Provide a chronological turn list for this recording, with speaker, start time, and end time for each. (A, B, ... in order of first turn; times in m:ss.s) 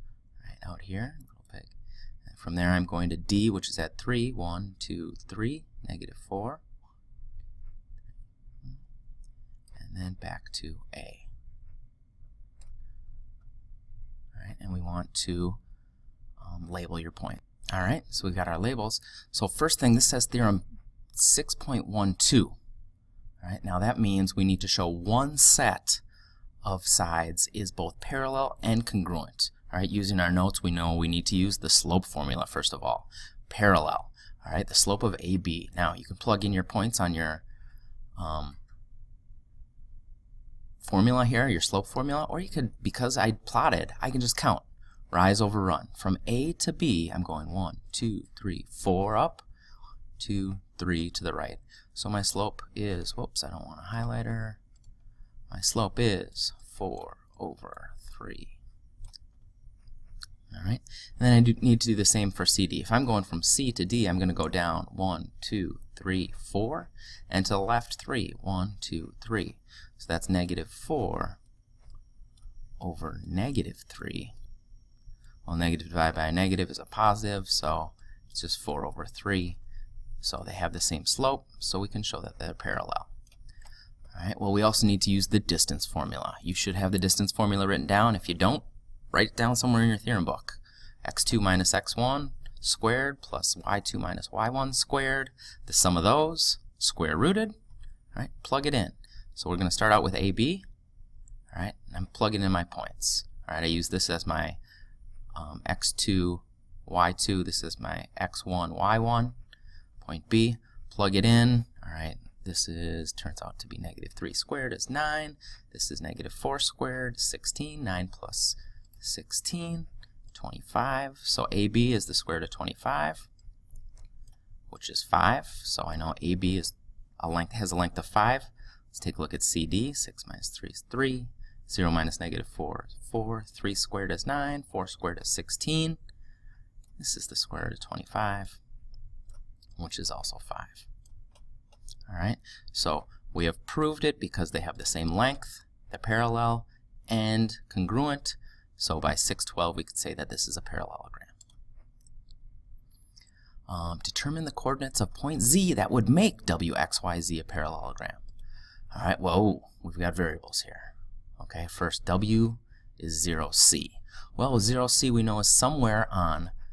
0:00.4-0:06.6 A
0:09.8-0:11.3 A
0:14.3-0:15.6 A
0:16.4-0:20.6 A
0:21.1-0:22.6 A
0:23.4-0:26.0 A
0:26.6-0:37.4 A
0:38.2-0:38.6 A
0:40.8-0:49.4 A
0:50.2-0:54.6 A
0:55.5-0:58.6 A
1:00.5-1:11.4 A
1:12.8-1:14.3 A
1:15.4-1:19.6 A
1:20.2-1:23.1 A
1:24.1-1:37.5 A
1:38.1-1:40.6 A
1:41.5-1:44.6 A
1:45.3-1:49.3 A
1:50.0-2:03.3 A
2:04.7-2:16.0 A
2:17.0-2:18.6 A
2:19.8-2:20.9 A
2:22.1-2:31.3 A
2:33.7-2:38.2 A
2:38.9-2:46.5 A